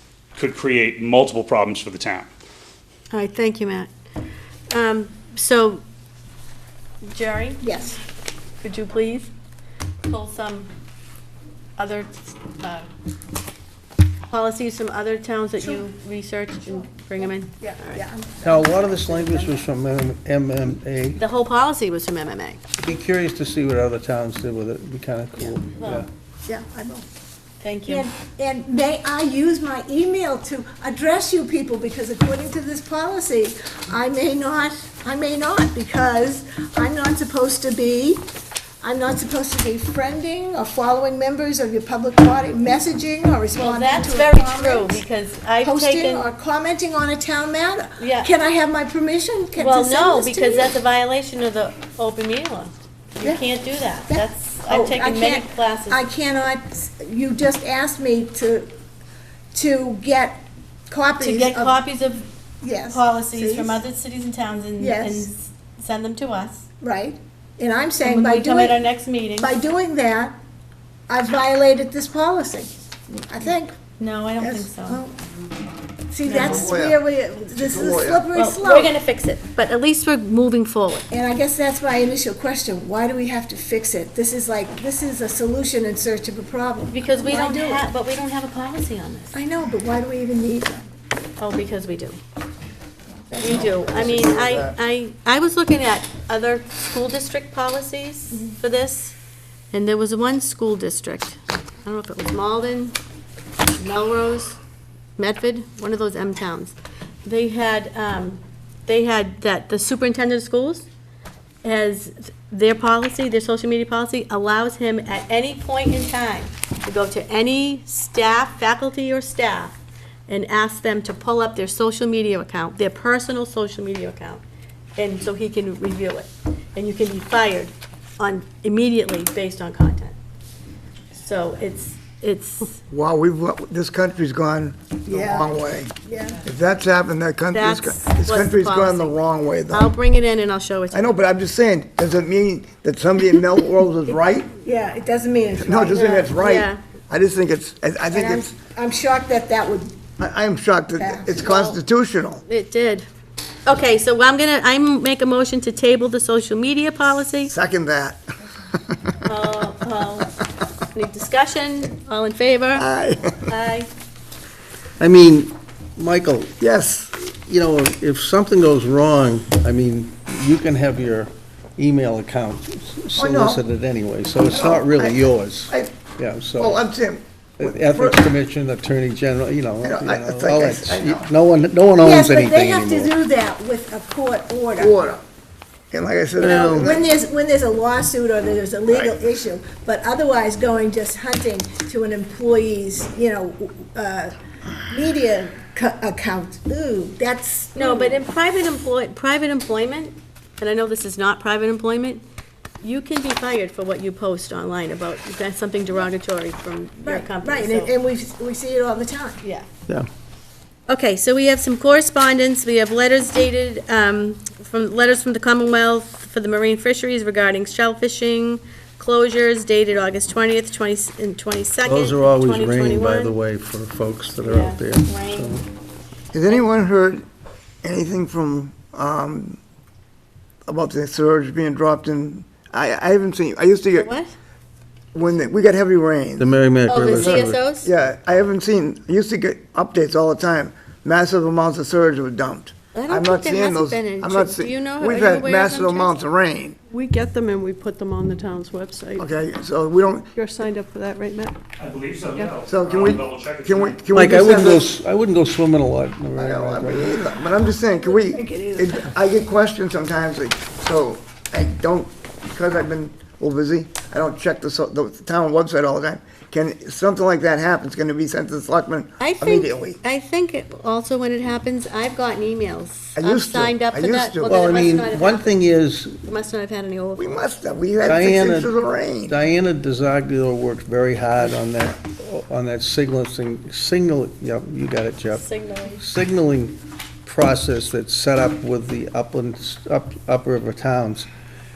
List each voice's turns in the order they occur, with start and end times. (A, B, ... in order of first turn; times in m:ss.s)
0:00.4-0:02.3 A
0:03.1-0:03.9 B
0:04.7-0:05.8 B
0:07.0-0:08.0 B
0:07.6-0:08.0 C
0:08.6-0:09.3 B
0:10.0-0:10.7 B
0:11.8-0:12.9 B
0:14.3-0:18.0 B
0:16.6-0:19.7 C
0:18.4-0:21.2 D
0:21.2-0:22.6 B
0:22.8-0:26.1 D
0:25.4-0:26.0 B
0:26.4-0:27.0 C
0:27.6-0:28.1 B
0:27.9-0:38.2 C
0:38.8-0:45.0 C
0:43.6-0:46.3 B
0:45.6-0:50.7 C
0:48.0-0:48.3 B
0:49.6-0:56.0 B
0:54.1-0:58.7 C
0:59.5-1:01.8 C
1:01.2-1:02.3 B
1:02.6-1:03.8 C
1:02.8-1:06.6 B
1:04.8-1:05.3 C
1:06.8-1:08.8 C
1:08.0-1:09.5 B
1:09.4-1:10.4 C
1:11.1-1:13.7 C
1:14.0-1:15.0 B
1:14.6-1:15.1 C
1:16.1-1:18.9 C
1:16.2-1:16.7 B
1:16.3-1:17.0 E
1:17.6-1:18.2 E
1:18.3-1:21.1 B
1:21.1-1:27.8 C
1:26.9-1:29.4 B
1:29.3-1:30.8 C
1:31.4-1:32.2 B
1:33.3-1:34.8 E
1:33.4-1:39.2 B
1:39.7-1:43.0 B
1:43.8-1:44.6 B
1:45.2-1:50.9 B
1:51.6-1:59.8 B
2:00.3-2:04.4 B
2:05.0-2:10.2 B
2:11.2-2:12.8 B
2:12.9-2:19.9 E
2:15.1-2:15.6 C
2:16.1-2:16.4 C
2:17.5-2:21.2 B
2:20.9-2:24.5 E
2:24.1-2:26.4 C
2:25.6-2:28.5 E
2:25.9-2:26.8 B
2:28.1-2:29.9 C
2:30.2-2:32.4 E
2:31.0-2:31.5 C
2:31.4-2:31.8 B
2:32.4-2:33.1 B
2:33.7-2:37.5 B
2:37.5-2:38.2 E
2:39.2-2:40.3 B
2:40.9-2:42.9 B
2:42.8-2:43.4 E
2:43.5-2:43.9 B
2:45.0-2:46.6 D
2:46.6-2:47.1 E
2:47.2-2:56.8 D
2:53.2-2:53.6 E
2:54.5-2:56.0 E
2:56.5-2:58.3 E
2:57.6-3:03.1 D
2:59.8-3:01.3 E
3:02.0-3:04.9 C
3:04.8-3:05.2 E
3:05.9-3:07.1 E
3:06.4-3:14.3 C
3:06.4-3:07.0 D
3:08.9-3:09.2 E
3:14.9-3:18.2 C
3:17.8-3:22.2 B
3:22.8-3:27.9 B
3:27.0-3:29.4 C
3:30.9-3:43.4 B
3:41.8-3:45.7 D
3:44.4-3:45.6 B
3:46.3-3:47.2 E
3:47.8-3:49.6 E
3:50.7-3:54.1 E
3:53.9-3:54.3 B
3:55.1-3:56.5 E
3:56.4-3:57.6 D
3:56.9-3:57.9 B
3:57.0-4:06.8 E
4:02.9-4:06.2 B
4:06.9-4:09.2 F
4:09.2-4:10.3 E
4:10.3-4:11.6 F
4:11.8-4:14.0 A
4:12.2-4:12.7 F
4:12.7-4:14.9 E
4:14.1-4:17.2 D
4:16.3-4:30.0 E
4:17.7-4:19.0 C
4:29.2-4:35.6 B
4:33.2-4:35.0 E
4:34.4-4:36.2 D
4:36.2-4:37.4 B
4:37.2-4:39.4 E
4:38.0-4:38.7 D
4:39.3-4:45.4 D
4:45.3-4:46.0 B
4:46.0-4:51.3 D